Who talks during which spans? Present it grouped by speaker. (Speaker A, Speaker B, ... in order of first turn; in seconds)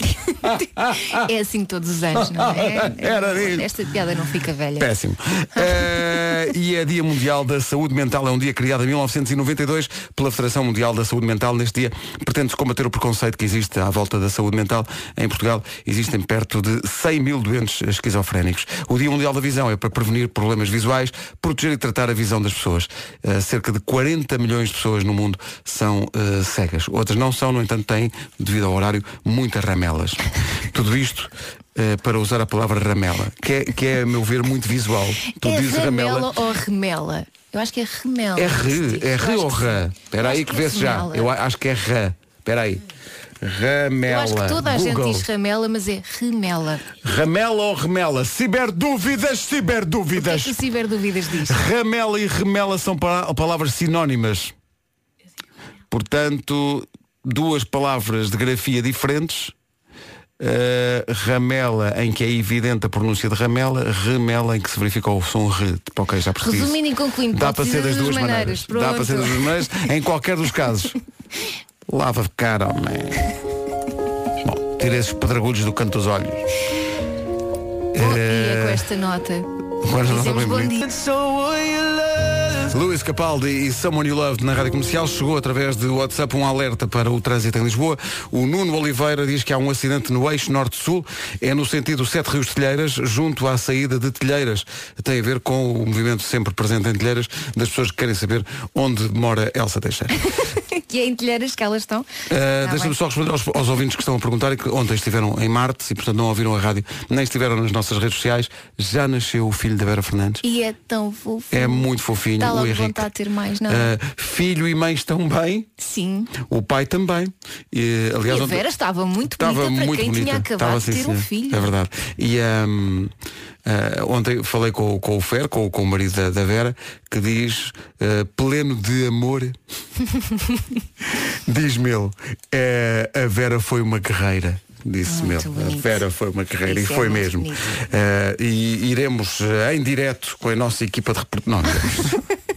Speaker A: 0.4-1.2, 2.1-3.7, 4.8-36.3, 38.4-42.8, 43.4-45.3, 47.0-50.6, 51.4-54.5, 55.9-59.5, 60.4-66.8, 67.3-71.0, 71.9-73.3, 74.4-76.4, 77.9-78.9, 79.8-81.7, 82.6-100.2, 102.3-110.4, 111.5-113.1, 113.7-115.7, 116.4-118.7, 119.3-123.1, 123.7-129.6, 131.5-142.2
Speaker B: 1.1-4.9, 35.4-41.3, 44.1-46.9, 50.1-51.6, 66.4-69.8, 78.0-79.5, 80.0-80.8, 100.7-102.1, 102.6-102.9, 110.4-113.9, 115.8-116.3, 118.3-121.7, 135.1-136.0, 136.7-137.7